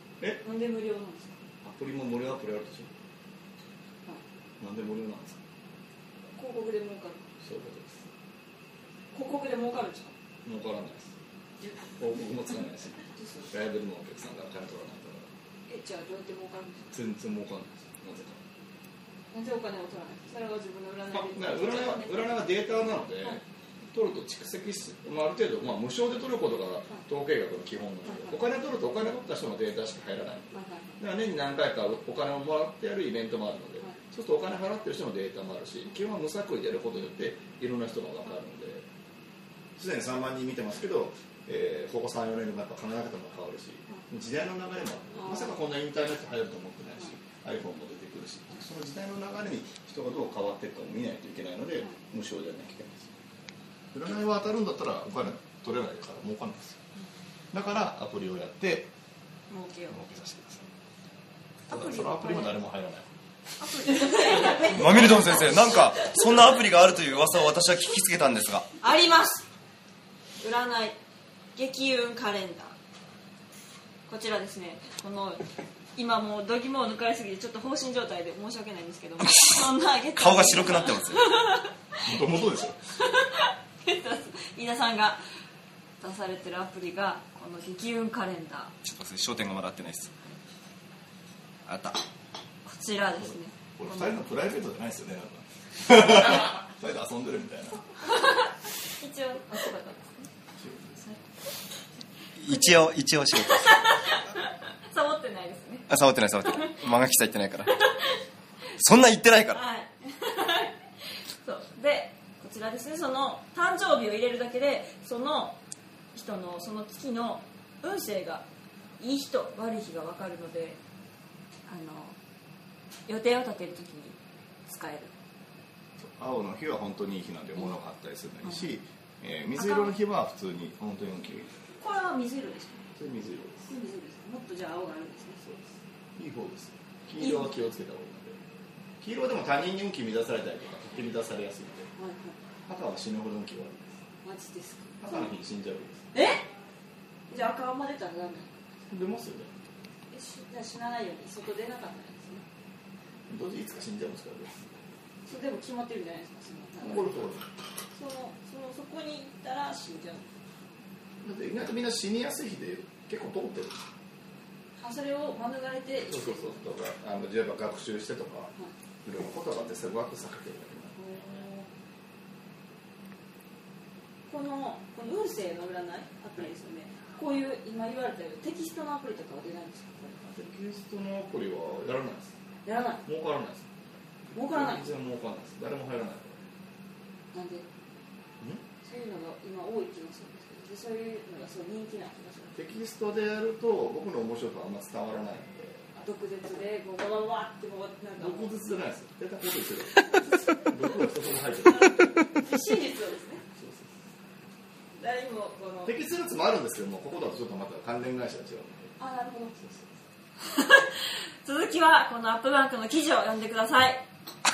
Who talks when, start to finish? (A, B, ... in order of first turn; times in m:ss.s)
0:00.4-0:01.4 A
0:01.6-0:02.9 B
0:04.6-0:05.4 B
0:06.3-0:07.3 A
0:07.4-0:08.0 B
0:09.1-0:10.1 A
0:10.4-0:11.1 B
0:11.6-0:11.9 A
0:12.0-0:15.3 B
0:13.1-0:13.5 A
0:15.7-0:16.9 A
0:16.9-0:18.4 B
0:19.3-0:22.4 A
0:21.1-0:38.8 B
0:28.1-0:28.4 A
0:30.5-0:31.0 A
0:39.8-0:53.1 B
0:53.9-0:56.8 B
0:57.5-0:58.9 B
0:59.5-1:00.0 A
0:59.9-1:00.7 B
1:01.7-1:02.5 A
1:01.7-1:03.1 B
1:03.6-1:05.9 A
1:04.6-1:08.7 C
1:08.8-1:09.4 A
1:10.4-1:11.0 A
1:11.5-1:12.8 A
1:14.1-1:21.7 A
1:20.1-1:21.2 C
1:22.0-1:22.8 B
1:23.0-1:25.2 A
1:26.0-1:28.7 A
1:28.8-1:30.1 C
1:31.6-1:32.0 C
1:32.6-1:34.3 A
1:33.8-1:38.0 B
1:38.9-1:40.3 A
1:40.6-1:41.1 B
1:42.4-1:43.7 C
1:43.3-1:45.9 A
1:45.9-1:47.8 C
1:48.7-1:49.6 C
1:49.5-1:50.8 A
1:51.4-1:55.6 A
1:56.1-1:58.4 A
1:59.0-2:00.8 A
2:01.7-2:02.1 A
2:03.0-2:05.1 A
2:06.0-2:11.5 B
2:09.6-2:10.0 A
2:11.8-2:12.9 A
2:13.0-2:13.7 B
2:13.6-2:15.4 A
2:15.4-2:18.4 B
2:17.2-2:17.5 A
2:19.0-2:21.9 B
2:22.0-2:22.4 A
2:22.6-2:24.0 B
2:24.2-2:25.2 A
2:25.0-2:26.0 B
2:26.1-2:26.4 A
2:27.3-2:28.7 A
2:28.9-2:29.6 B
2:30.1-2:32.4 A
2:33.3-2:34.7 B
2:35.3-2:37.1 A
2:36.8-2:37.5 B
2:37.9-2:40.3 A
2:41.2-2:43.8 B
2:44.8-2:46.7 A
2:46.0-2:48.5 B
2:49.0-2:51.0 B
2:50.9-2:51.7 A
2:54.3-3:00.2 A
3:00.2-3:02.3 B
3:02.6-3:03.0 A
3:03.0-3:03.7 B
3:04.3-3:06.5 B
3:04.3-3:04.9 A
3:07.3-3:07.6 A
3:08.8-3:12.6 A
3:12.5-3:15.8 B
3:15.9-3:18.5 A
3:18.2-3:22.1 B
3:21.6-3:23.4 A
3:23.6-3:23.9 B
3:25.0-3:25.9 A
3:25.8-3:29.0 B
3:29.0-3:29.7 A
3:29.6-3:29.8 B
3:30.4-3:34.0 A